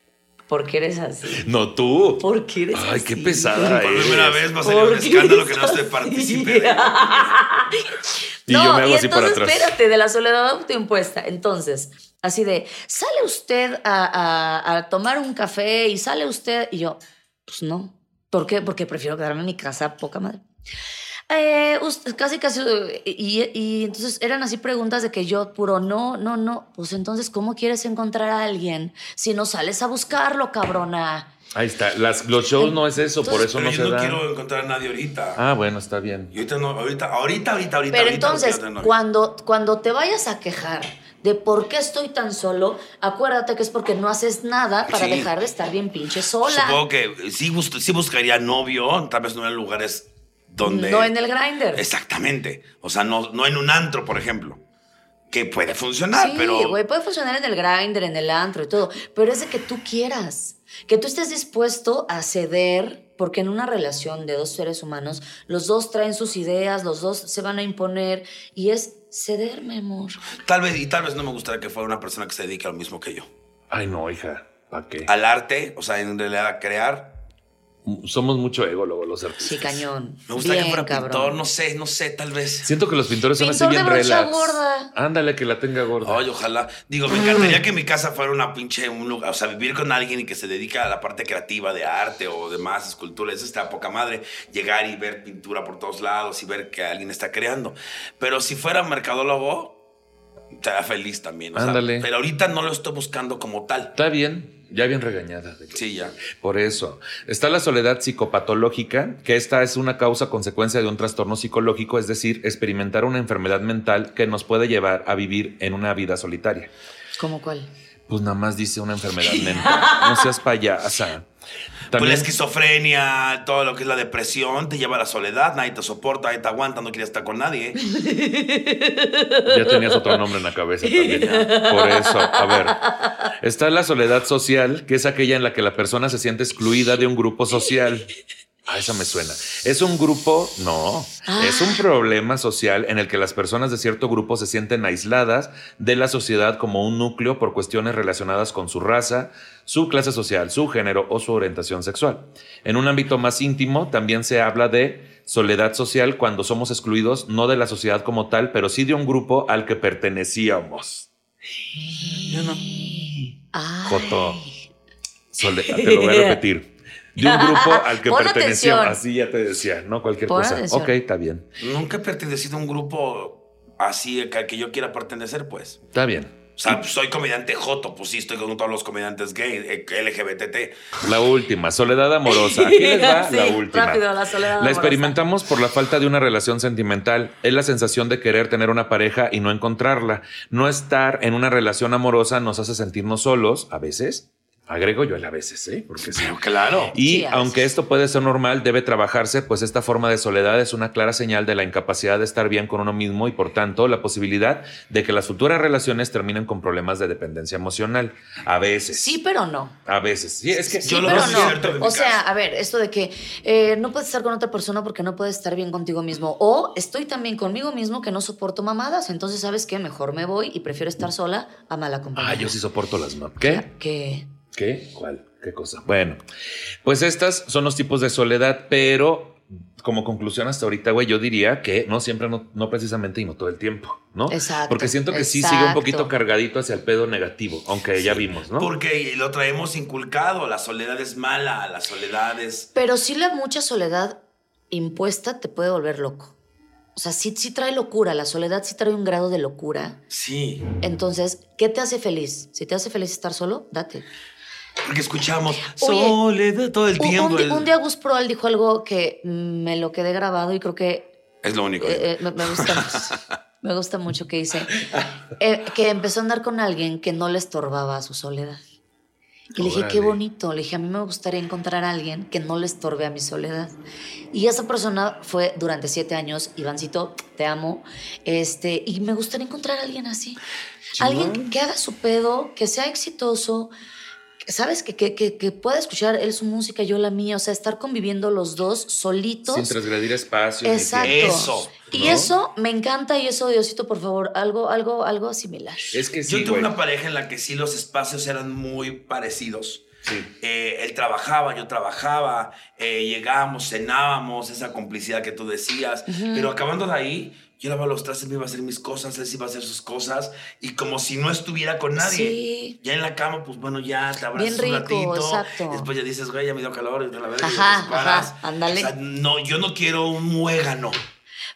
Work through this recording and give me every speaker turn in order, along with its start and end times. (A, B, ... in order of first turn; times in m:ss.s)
0:00.5-0:01.5 A
0:01.3-0:04.4 B
0:02.2-0:03.8 A
0:03.6-0:07.4 C
0:04.6-0:08.0 A
0:08.5-0:09.8 B
0:08.5-0:20.4 A
0:21.3-0:31.3 A
0:31.6-0:34.2 B
0:33.2-0:35.4 C
0:35.4-0:36.3 B
0:36.3-0:38.9 C
0:37.9-0:46.8 A
0:44.9-0:45.3 C
0:46.4-0:51.1 C
0:50.6-0:51.8 A
0:51.8-0:54.6 C
0:55.3-0:56.8 C
0:56.1-1:10.2 A
1:10.3-1:13.3 C
1:13.7-1:15.1 B
1:15.0-1:17.2 C
1:17.8-1:19.8 B
1:19.4-1:21.4 A
1:20.3-1:22.7 C
1:22.6-1:26.2 B
1:23.4-1:24.9 A
1:26.0-1:39.8 C
1:40.5-1:43.9 C
1:41.6-1:42.1 B
1:44.0-1:56.7 B
1:45.7-1:46.2 C
1:57.2-1:57.7 A
1:58.1-2:01.3 B
1:59.3-2:00.2 A
2:01.9-2:02.3 B
2:01.9-2:07.8 C
2:07.8-2:10.2 A
2:09.5-2:12.8 B
2:10.8-2:13.3 A
2:13.4-2:18.1 B
2:18.7-2:41.1 B
2:21.2-2:21.8 A
2:41.9-2:44.6 A
2:42.3-2:42.7 C
2:43.8-2:44.4 B
2:45.3-2:51.5 B
2:45.5-2:46.4 A
2:47.2-2:49.0 A
2:50.3-2:50.9 A
2:51.6-2:55.8 C
2:55.9-2:56.8 B
2:56.6-3:01.0 C
3:01.0-3:16.3 B
3:02.3-3:05.2 A
3:16.0-3:17.0 C
3:16.9-3:29.2 B
3:17.0-3:17.6 A
3:28.9-3:29.8 A
3:29.9-3:31.8 B
3:30.6-3:42.6 A
3:30.8-3:32.2 C
3:42.2-3:43.7 B
3:43.4-3:44.3 A
3:44.5-3:46.2 B
3:46.8-3:58.7 B
3:54.3-3:56.1 A
3:58.0-4:02.7 C
4:02.8-4:06.4 A
4:07.0-4:10.0 A
4:10.1-4:10.7 C
4:10.8-4:14.1 A
4:14.8-4:17.7 C
4:15.6-4:16.2 A
4:17.0-4:21.1 A
4:21.4-4:23.2 C
4:21.8-4:24.8 A
4:25.4-4:28.6 A
4:29.6-4:30.2 B
4:29.6-4:33.8 A
4:34.3-4:40.4 A
4:40.9-4:41.5 B
4:41.0-4:43.7 A
4:44.4-4:49.8 A
4:49.5-4:52.3 B
4:50.6-4:56.0 A
4:51.0-4:51.9 C
4:55.9-4:56.7 B
4:56.3-4:59.9 C
5:00.0-5:00.3 B
5:00.4-5:21.0 C
5:06.1-5:06.5 A
5:12.0-5:12.8 A
5:14.4-5:15.9 A
5:17.4-5:18.9 A